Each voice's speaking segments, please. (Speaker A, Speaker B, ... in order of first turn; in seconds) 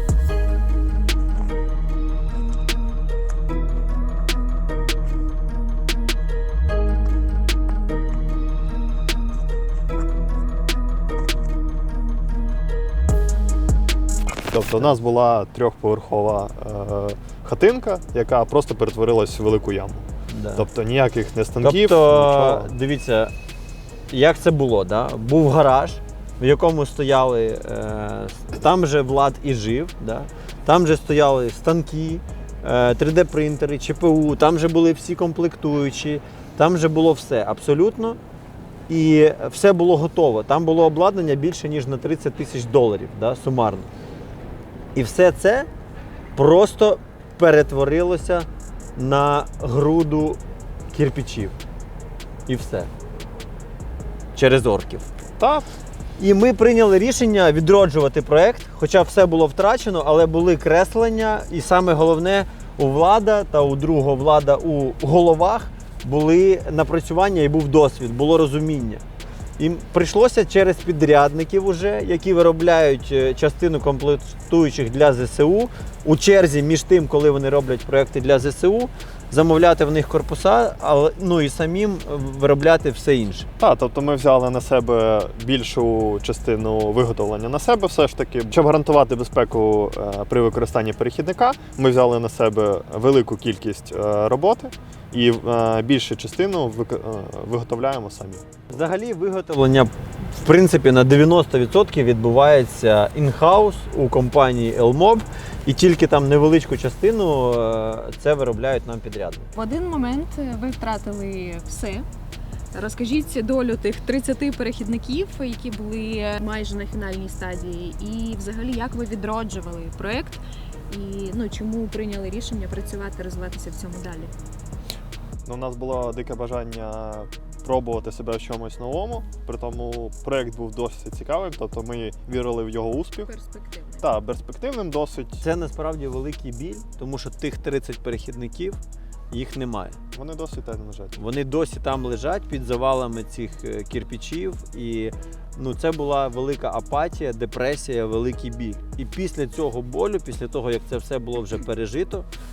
Speaker A: 14.5-22.7, 55.4-55.7, 83.6-98.4, 125.5-133.3, 134.0-135.4, 140.1-141.2
Speaker B: 20.3-20.6, 21.6-23.3, 24.1-38.2, 38.9-43.9, 44.9-45.7, 46.4-50.4, 50.9-51.5, 52.5-52.9, 54.3-55.1, 56.2-69.0, 69.6-83.5, 98.7-109.5, 135.4-138.8, 139.3-140.0, 141.2-152.3
Speaker C: 109.5-112.0, 112.7-124.3, 133.2-134.0